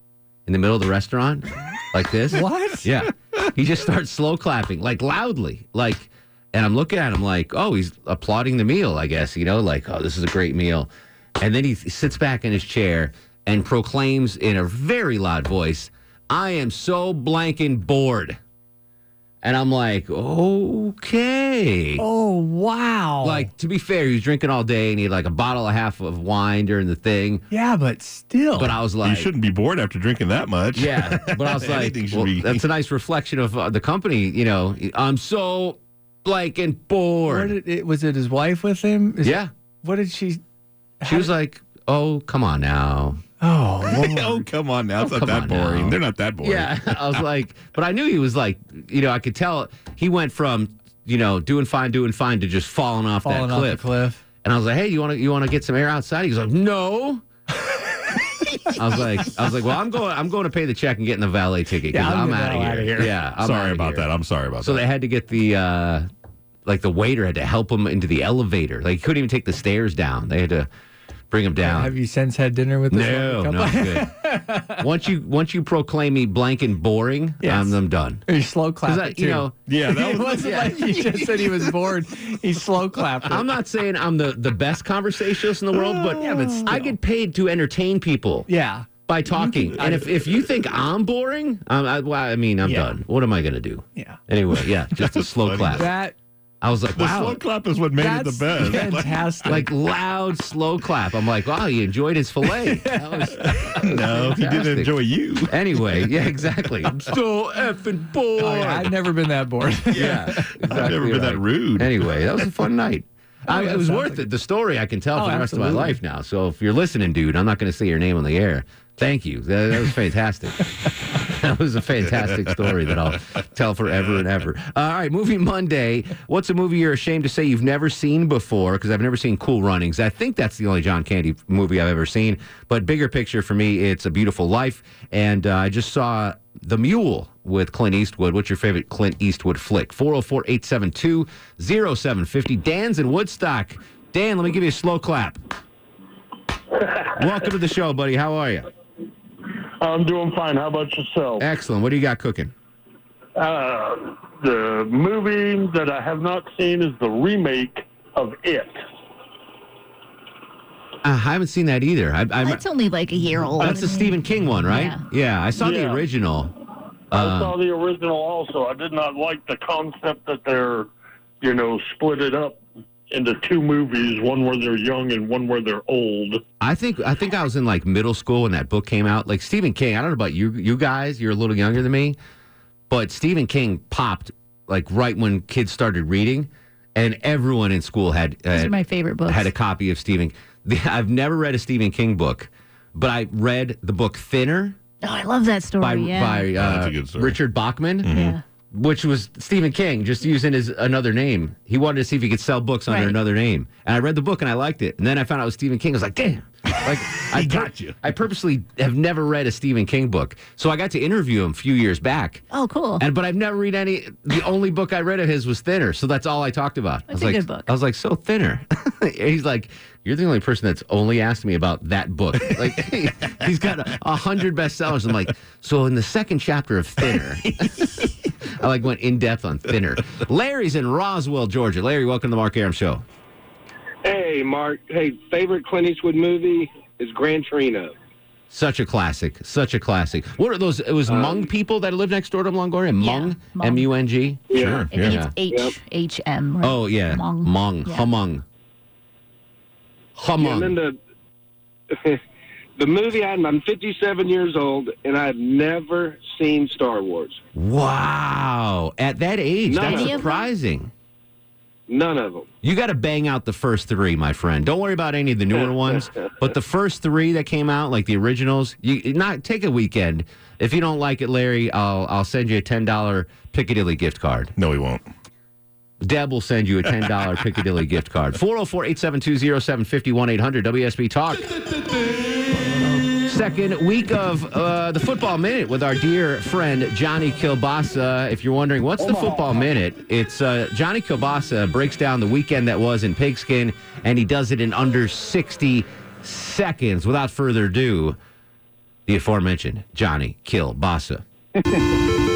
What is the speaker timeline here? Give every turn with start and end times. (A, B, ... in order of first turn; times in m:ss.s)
0:00.5-0:10.9 A
0:02.3-0:02.9 B
0:11.4-0:18.4 A
0:19.4-0:22.0 A
0:22.0-0:23.5 B
0:23.2-0:27.4 A
0:27.5-0:28.8 B
0:28.6-0:29.3 A
0:29.0-0:32.6 C
0:30.7-0:37.5 A
0:37.2-0:40.4 B
0:39.2-0:39.5 A
0:41.0-0:41.3 B
0:41.0-0:43.2 A
0:43.4-0:44.5 B
0:43.8-0:47.2 C
0:45.0-0:53.9 A
0:53.2-0:54.2 B
0:54.4-0:57.2 A
0:58.8-1:06.1 A
1:01.9-1:03.1 B
1:03.4-1:04.9 C
1:06.7-1:10.7 A
1:11.3-1:11.9 A
1:11.6-1:14.8 B
1:12.9-1:14.1 A
1:14.8-1:18.2 A
1:17.4-1:23.5 B
1:18.8-1:19.6 A
1:19.6-1:21.5 C
1:20.4-1:21.0 A
1:23.3-1:28.5 A
1:25.7-1:27.0 B
1:28.5-1:30.2 B
1:29.1-1:35.9 A
1:32.6-1:32.9 B
1:35.0-1:35.9 C
1:35.7-1:36.2 B
1:36.6-1:37.4 A
1:37.0-1:39.3 C
1:38.0-1:39.7 B
1:39.5-1:45.0 A
1:42.6-1:43.3 B
1:43.8-1:46.0 C
1:45.5-1:48.9 A
1:48.4-1:50.7 B
1:49.9-2:00.6 A
1:49.9-1:52.2 C
1:53.5-1:54.3 B
1:55.1-1:56.0 B
2:01.3-2:25.4 A
2:27.2-2:28.6 A
2:29.8-2:31.4 D
2:31.4-2:32.5 A
2:33.4-2:38.8 D
2:41.0-2:42.6 A
2:42.4-2:45.0 E
2:43.6-2:46.5 A
2:45.6-2:46.0 D
2:47.1-2:47.6 A
2:47.1-2:50.9 D
2:51.4-2:56.4 D
2:56.6-3:02.2 A
3:02.9-3:14.8 A
3:08.5-3:09.5 E
3:15.0-3:16.5 E
3:15.8-3:18.2 A
3:16.5-3:17.4 C
3:18.0-3:18.4 C
3:18.1-3:18.4 E
3:18.7-3:32.4 A
3:22.9-3:23.2 E
3:27.2-3:28.0 C
3:32.5-3:33.0 E
3:33.0-3:48.1 A
3:37.1-3:37.7 E
3:48.6-3:53.0 A
3:54.0-3:57.9 F
3:58.5-4:05.3 A
4:01.1-4:01.5 F
4:03.0-4:03.9 E
4:04.5-4:04.8 F
4:04.5-4:05.2 C
4:04.9-4:08.1 E
4:06.6-4:08.4 A
4:10.2-4:10.7 A
4:10.4-4:11.0 F
4:11.9-4:12.2 F
4:12.8-4:17.4 F
4:17.6-4:20.9 A
4:19.7-4:20.2 F
4:19.8-4:20.5 E
4:21.9-4:22.5 F
4:22.6-4:34.5 A
4:25.6-4:26.0 F
4:34.6-4:35.0 C
4:36.0-4:41.5 A
4:43.3-4:58.2 A
4:49.0-4:49.4 D
4:59.1-5:01.2 A